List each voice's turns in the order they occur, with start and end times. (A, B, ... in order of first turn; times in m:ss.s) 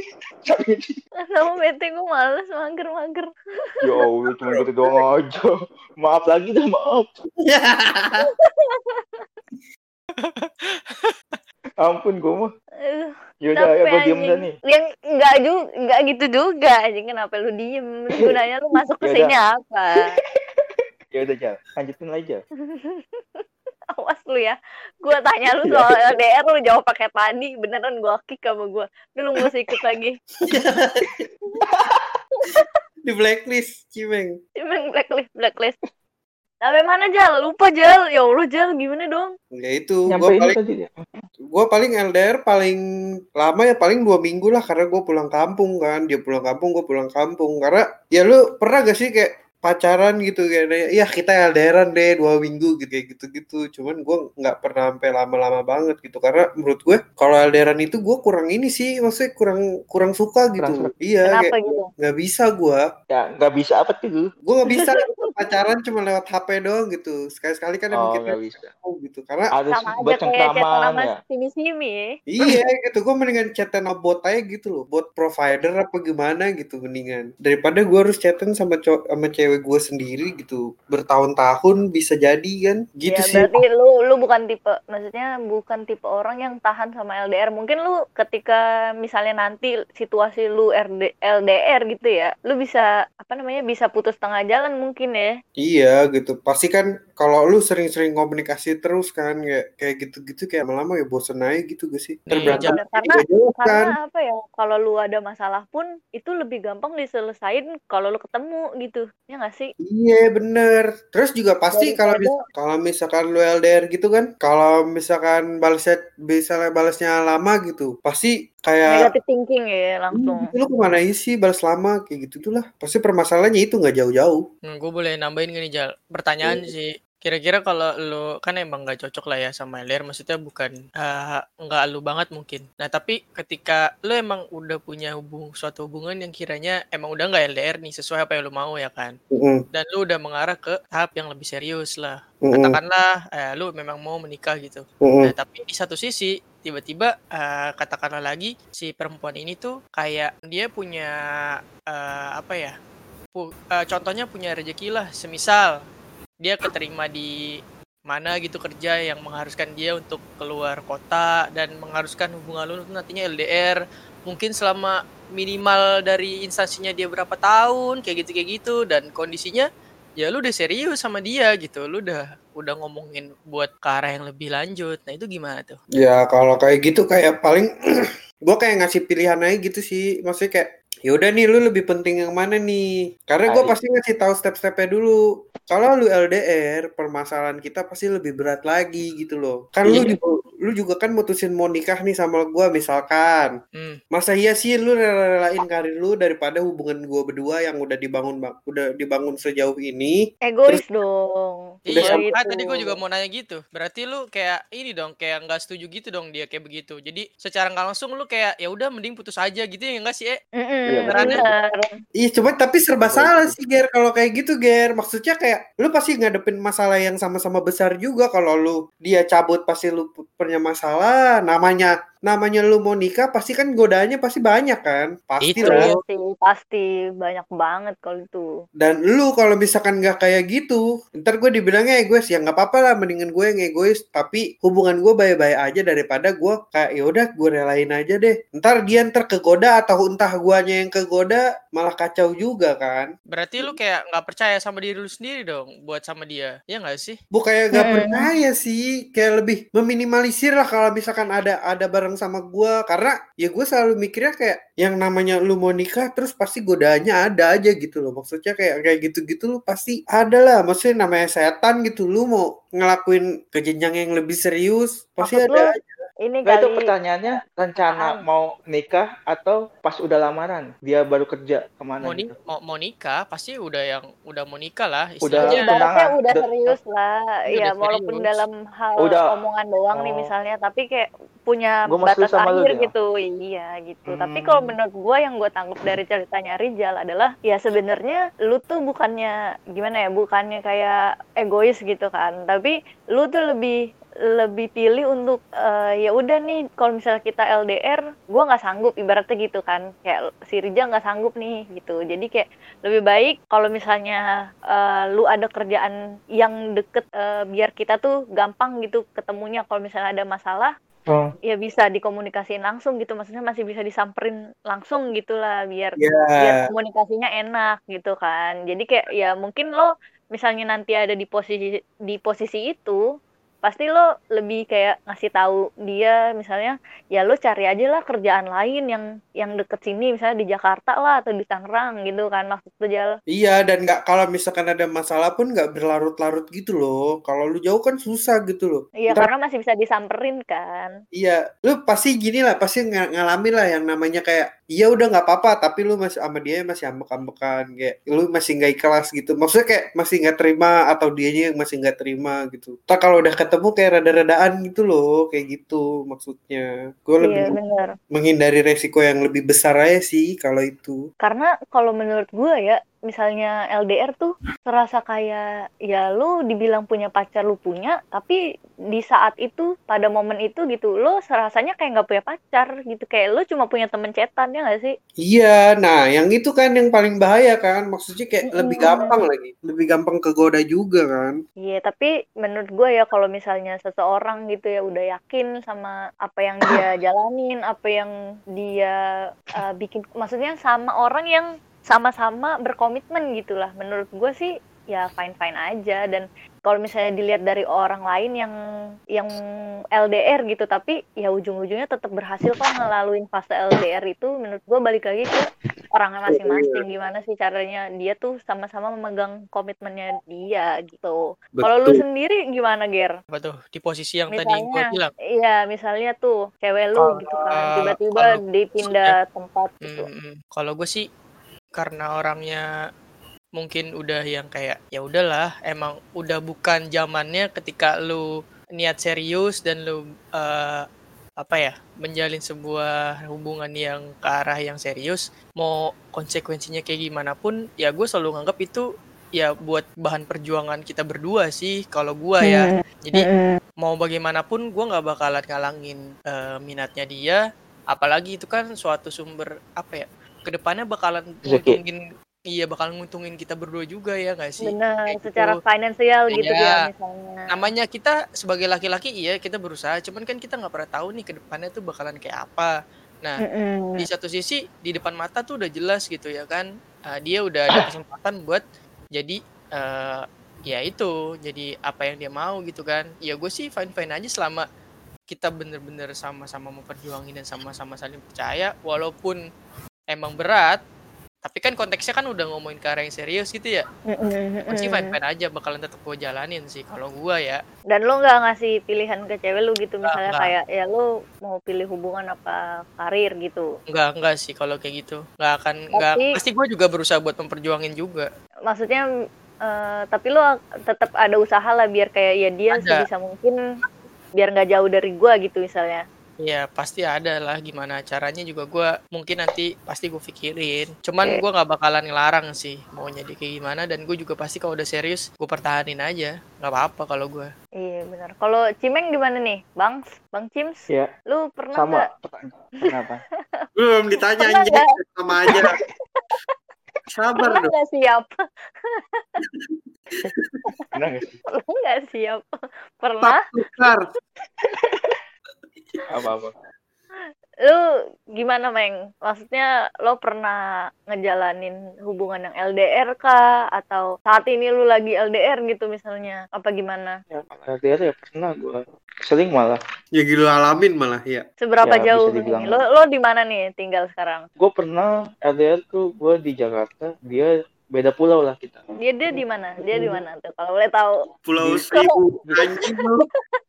0:00.4-0:01.0 A
0:01.2-0:03.8 B
0:03.8-0:07.1 A
0:04.4-0:04.7 C
0:07.4-0:08.3 C
0:08.3-0:09.2 B
0:10.2-0:11.4 D
0:11.8-0:12.5 A
0:12.8-0:20.1 B
0:13.4-0:14.5 A
0:19.0-0:19.3 A
0:20.4-0:22.4 A
0:22.6-0:30.2 B
0:25.6-0:26.0 A
0:30.4-0:31.3 C
0:31.6-0:32.0 A
0:32.4-0:32.7 B
0:33.0-0:34.4 C
0:34.6-0:35.8 B
0:36.6-0:39.3 B
0:39.5-0:40.6 C
0:40.1-0:41.0 A
0:41.5-0:42.8 C
0:43.4-1:02.8 C
1:00.6-1:00.9 A
1:01.3-1:01.9 B
1:03.1-1:04.2 A
1:04.4-1:09.5 C
1:04.7-1:05.3 B
1:07.9-1:08.7 A
1:09.5-1:11.1 A
1:09.7-1:12.0 B
1:12.3-1:23.6 C
1:23.1-1:35.4 B
1:35.6-1:43.9 C
1:42.3-1:42.7 D
1:42.4-1:49.7 B
1:49.8-1:59.1 C
1:51.7-1:52.4 B
1:58.9-2:00.5 B
2:00.1-2:04.4 C
2:04.7-2:19.2 D
2:19.3-2:19.6 C
2:19.7-2:31.1 D
2:22.4-2:22.8 C
2:25.0-2:25.3 C
2:31.9-2:32.7 D
2:33.3-2:35.7 D
2:36.4-2:37.3 D
2:38.1-2:49.7 D
2:50.2-2:55.8 D
2:56.0-3:05.2 C
3:03.5-3:03.8 A
3:05.7-3:13.5 C
3:09.9-3:10.1 A
3:14.1-3:20.8 C
3:20.5-3:22.9 B
3:21.9-3:30.4 D
3:30.6-3:31.9 B
3:30.9-3:31.5 A
3:31.1-3:31.4 D
3:32.2-3:45.9 C
3:33.0-3:33.6 A
3:45.4-3:46.0 D
3:45.6-3:48.5 B
3:48.8-4:03.1 C
4:03.3-4:07.2 D
4:07.3-4:26.0 C
4:07.8-4:08.2 B
4:25.2-4:25.7 B
4:26.2-4:26.8 B
4:26.4-4:32.3 A
4:27.8-4:28.2 B
4:32.0-4:35.7 D
4:35.2-4:36.8 A
4:35.4-4:53.8 B
4:37.5-4:38.4 D
4:39.0-4:39.3 A
4:39.9-4:40.3 A
4:41.9-4:42.9 A
4:44.1-4:44.7 A
4:54.3-5:10.7 B
5:11.1-5:11.3 A
5:11.5-5:23.0 B
5:16.0-5:16.6 C
5:23.6-5:33.1 B
5:33.3-5:39.3 C
5:39.0-5:40.9 B
5:41.1-5:57.6 C
5:57.2-5:57.9 B
5:58.1-6:01.0 C
6:01.2-6:08.4 B
6:08.9-6:15.0 B
6:15.2-6:21.4 C
6:18.5-6:19.1 B
6:21.6-6:29.0 B
6:29.5-6:38.5 B
6:40.0-6:53.1 B
6:46.3-6:46.8 C
6:51.6-6:52.0 C
6:53.3-6:55.1 D
6:54.3-7:00.1 B
6:57.0-6:59.1 D
6:59.8-7:01.0 D
7:01.8-7:02.6 D
7:03.6-7:08.2 D
7:08.8-7:10.8 D
7:11.4-7:18.8 D
7:19.4-7:23.3 D
7:22.4-7:23.6 B
7:23.8-7:32.0 D
7:31.5-7:31.8 A
7:32.5-7:35.6 D
7:34.6-7:37.5 B
7:36.3-7:36.7 D
7:37.5-7:42.7 D
7:43.4-7:44.0 B
7:44.0-7:48.6 D
7:49.2-7:54.6 D
7:55.3-7:59.4 D
8:00.1-8:00.8 D
8:01.4-8:03.8 D
8:04.1-8:05.2 B
8:04.7-8:07.6 D
8:07.9-8:13.7 B
8:10.1-8:10.5 D
8:13.9-8:18.3 D
8:15.9-8:16.3 B
8:18.7-8:19.0 B
8:19.6-8:23.6 B
8:22.7-8:23.0 D
8:24.4-8:26.0 B
8:26.4-8:37.5 D
8:37.8-8:42.0 B
8:41.8-8:43.2 A
8:43.8-8:45.8 C
8:44.4-8:44.9 B
8:45.5-8:45.8 A
8:46.1-8:46.5 B
8:47.1-8:47.7 C
8:47.4-8:49.2 B
8:49.6-8:50.6 C
8:50.9-8:51.3 A
8:51.5-8:53.4 B
8:53.2-8:54.0 C
8:54.6-8:55.2 A
8:56.1-8:56.5 A
8:57.2-8:57.8 B
8:58.4-9:07.2 B
9:07.3-9:09.8 A
9:10.1-9:11.5 C
9:11.6-9:14.5 B
9:11.8-9:12.8 A
9:14.6-9:18.8 A
9:19.0-9:21.2 B
9:19.4-9:20.2 A
9:21.5-9:23.2 C
9:22.6-9:23.4 B